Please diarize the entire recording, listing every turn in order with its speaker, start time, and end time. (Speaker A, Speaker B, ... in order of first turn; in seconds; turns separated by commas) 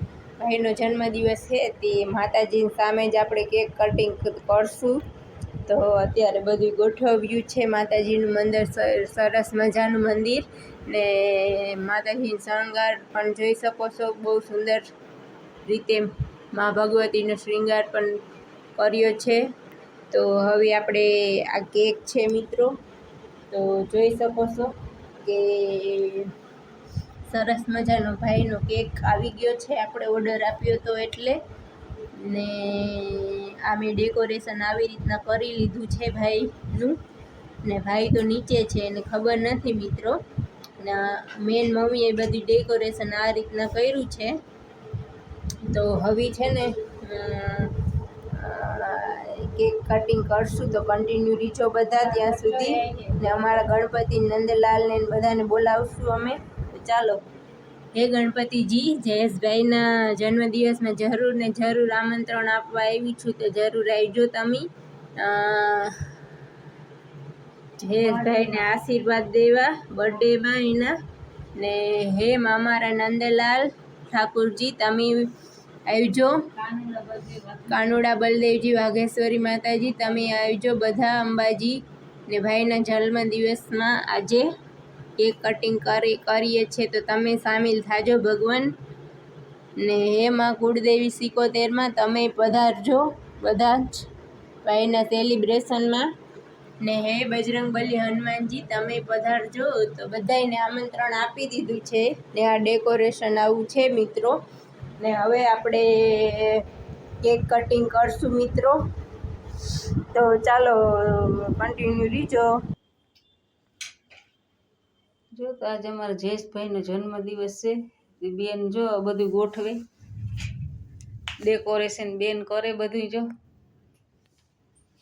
Speaker A: 0.4-5.0, Speaker A: 5.7-14.8, Speaker A: 15.7-18.2, Speaker A: 18.8-19.4, Speaker A: 20.1-22.7, Speaker A: 23.5-24.7, Speaker A: 25.2-26.3, Speaker A: 27.3-31.4, Speaker A: 32.1-37.0, Speaker A: 37.6-40.2, Speaker A: 40.8-44.4, Speaker A: 45.7-47.7, Speaker A: 48.3-57.2, Speaker B: 52.0-53.7, Speaker A: 57.9-64.7, Speaker A: 65.2-65.9, Speaker A: 67.8-70.9, Speaker B: 68.0-68.7, Speaker A: 71.6-75.2, Speaker A: 75.9-76.4, Speaker B: 76.5-77.8, Speaker A: 77.7-84.5, Speaker A: 85.2-88.7, Speaker A: 89.8-94.0, Speaker A: 94.6-96.1, Speaker A: 96.8-104.3, Speaker A: 105.0-106.6, Speaker A: 107.2-108.8, Speaker A: 110.1-112.5, Speaker B: 115.3-119.8, Speaker B: 121.4-123.2